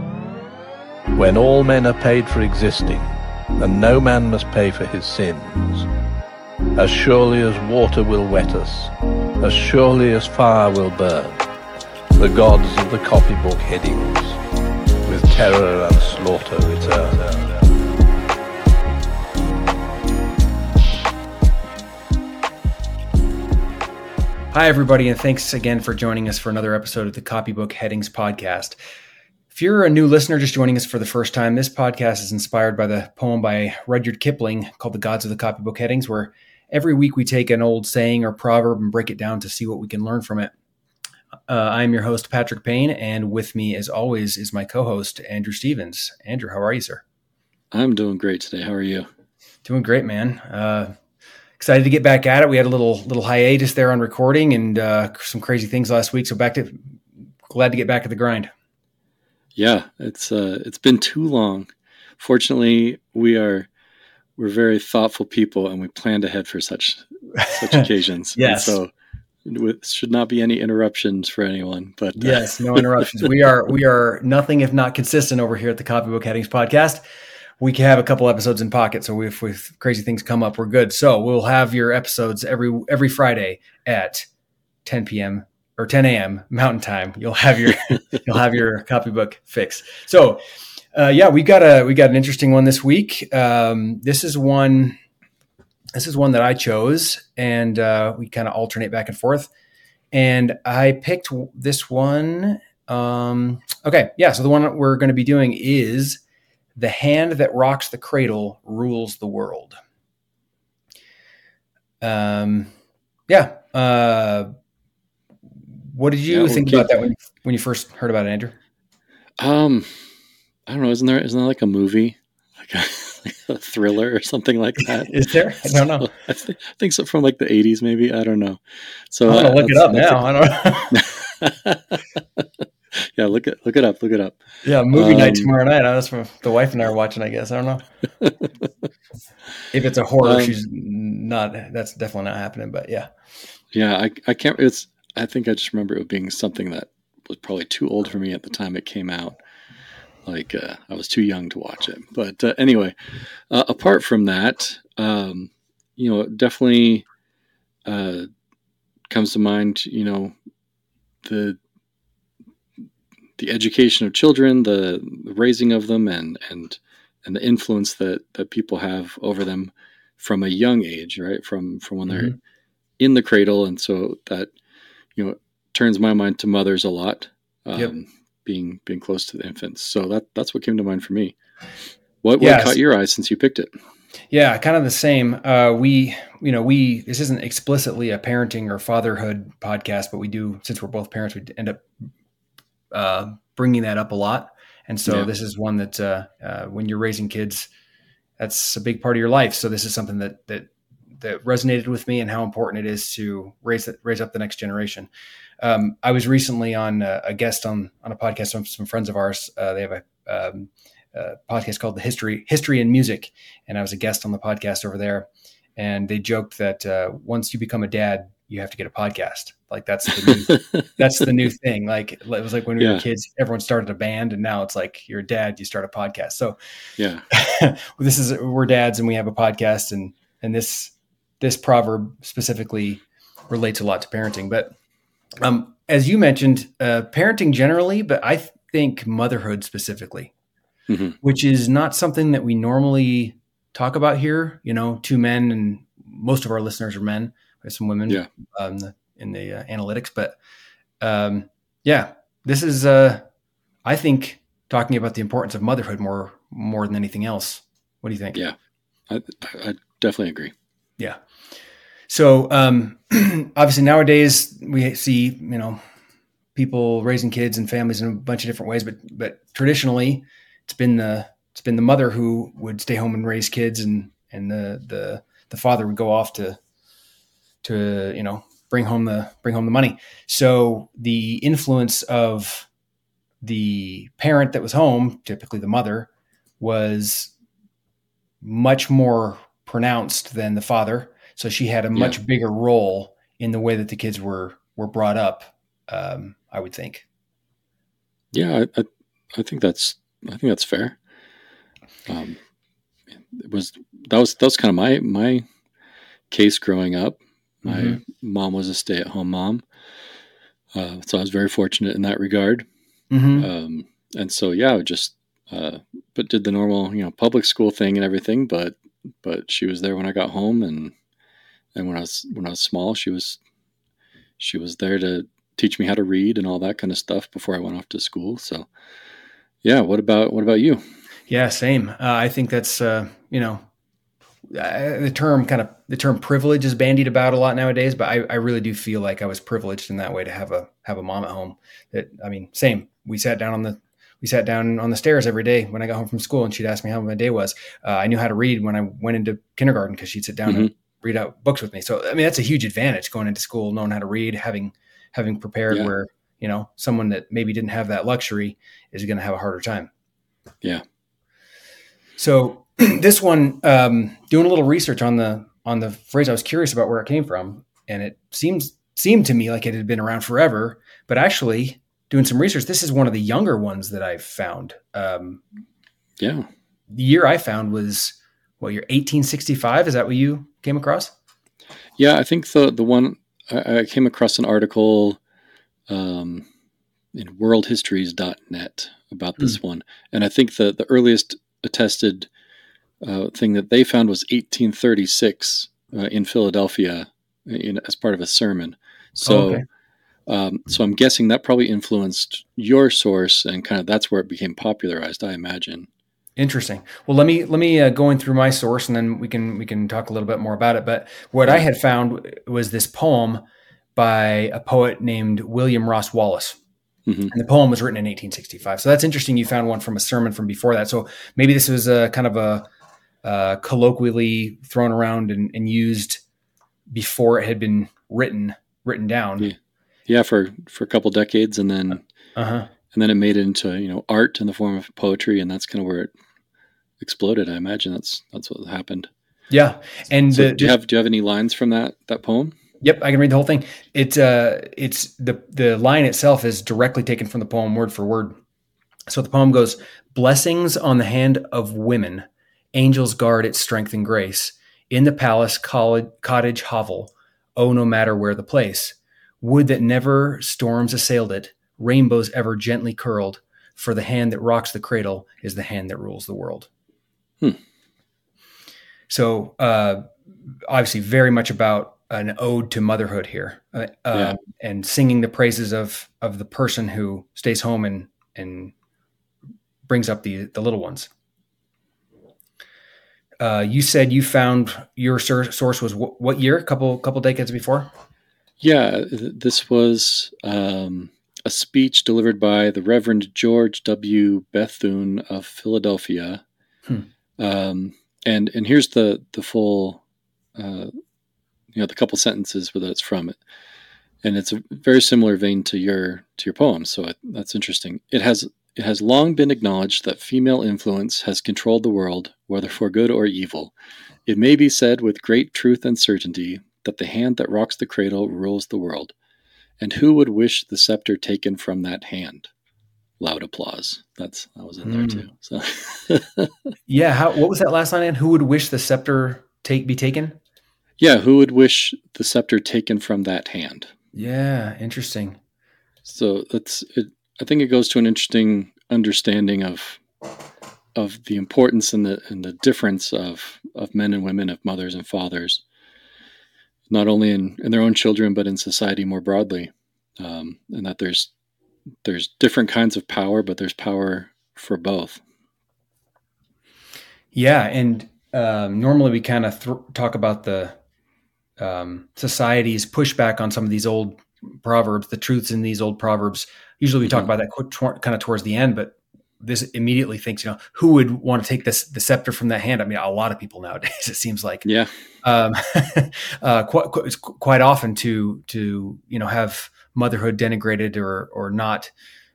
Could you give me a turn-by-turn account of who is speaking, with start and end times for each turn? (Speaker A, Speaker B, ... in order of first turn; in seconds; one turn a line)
Speaker A: 1.1-5.9
Speaker A: 6.8-11.4
Speaker A: 12.2-14.4
Speaker A: 15.1-17.6
Speaker B: 24.5-28.8
Speaker B: 29.5-40.5
Speaker B: 41.5-47.0
Speaker C: 47.7-49.1
Speaker B: 49.6-50.9
Speaker B: 51.6-57.0
Speaker B: 57.5-58.5
Speaker C: 59.5-63.7
Speaker C: 64.4-68.9
Speaker B: 67.4-67.8
Speaker B: 68.4-68.8
Speaker C: 69.5-73.3
Speaker B: 72.2-77.0
Speaker B: 77.6-84.3
Speaker B: 84.8-90.4
Speaker B: 90.9-95.0
Speaker B: 96.0-99.5
Speaker B: 100.1-106.2
Speaker B: 106.8-109.8
Speaker B: 112.0-112.7
Speaker B: 113.3-114.5
Speaker B: 115.9-118.6
Speaker C: 116.3-116.9
Speaker C: 119.4-120.0
Speaker C: 120.7-130.2
Speaker B: 125.0-126.1
Speaker B: 129.2-131.1
Speaker C: 130.9-134.4
Speaker B: 134.6-137.8
Speaker C: 134.9-135.5
Speaker B: 139.7-143.1
Speaker C: 140.2-140.5
Speaker C: 143.7-149.4
Speaker C: 150.2-152.9
Speaker C: 153.5-157.0
Speaker C: 157.8-158.3
Speaker C: 159.1-160.3
Speaker C: 161.2-161.6
Speaker C: 163.4-172.3
Speaker B: 172.1-172.4
Speaker C: 173.0-174.5
Speaker C: 175.2-181.3
Speaker C: 182.2-183.7
Speaker B: 182.4-182.8
Speaker B: 184.3-191.8
Speaker B: 192.9-197.7
Speaker B: 198.4-200.7
Speaker B: 201.2-205.1
Speaker B: 205.6-226.6
Speaker C: 227.0-227.2
Speaker B: 227.3-234.7
Speaker B: 235.4-240.3
Speaker C: 240.9-241.2
Speaker B: 241.2-250.3
Speaker B: 251.0-253.2
Speaker B: 253.8-258.4
Speaker C: 259.1-260.5
Speaker B: 262.1-265.8
Speaker B: 266.6-276.6
Speaker B: 277.6-282.7
Speaker B: 283.4-287.3
Speaker B: 288.4-297.1
Speaker C: 298.3-301.0
Speaker C: 302.1-302.4
Speaker C: 303.3-305.4
Speaker C: 306.3-309.6
Speaker B: 307.6-308.0
Speaker C: 310.7-312.7
Speaker B: 313.1-313.5
Speaker C: 313.4-320.9
Speaker C: 321.7-323.4
Speaker C: 324.4-328.7
Speaker C: 329.6-330.8
Speaker B: 331.3-333.6
Speaker B: 334.5-359.9
Speaker B: 362.2-375.4
Speaker C: 376.2-376.5
Speaker B: 376.9-381.1
Speaker C: 382.0-385.2
Speaker C: 385.9-386.5
Speaker C: 387.1-392.3
Speaker C: 393.0-399.6
Speaker B: 399.2-399.6
Speaker C: 400.3-405.9
Speaker B: 406.4-413.4
Speaker B: 414.0-416.6
Speaker C: 417.1-417.3
Speaker B: 417.3-422.7
Speaker B: 423.2-426.2
Speaker B: 426.9-429.5
Speaker C: 430.1-432.0
Speaker B: 432.4-432.7
Speaker C: 432.9-436.1
Speaker C: 437.0-439.1
Speaker B: 439.5-440.8
Speaker C: 440.3-442.5
Speaker B: 442.8-448.4
Speaker B: 449.1-466.7
Speaker B: 469.1-470.1
Speaker B: 470.7-478.7
Speaker B: 479.9-481.1
Speaker B: 483.4-487.9
Speaker C: 488.6-496.4
Speaker C: 497.4-500.0
Speaker C: 500.6-500.9
Speaker C: 501.7-503.4
Speaker C: 504.2-513.7
Speaker C: 514.3-519.1
Speaker C: 519.8-522.5
Speaker C: 523.2-526.5
Speaker B: 524.8-525.3
Speaker B: 526.9-530.4
Speaker C: 531.0-533.9
Speaker B: 534.1-535.4
Speaker C: 536.0-540.0
Speaker C: 541.0-545.6
Speaker C: 546.9-551.3
Speaker C: 552.0-555.2
Speaker B: 557.3-560.8
Speaker B: 561.6-574.6
Speaker C: 574.6-574.9
Speaker B: 575.2-581.9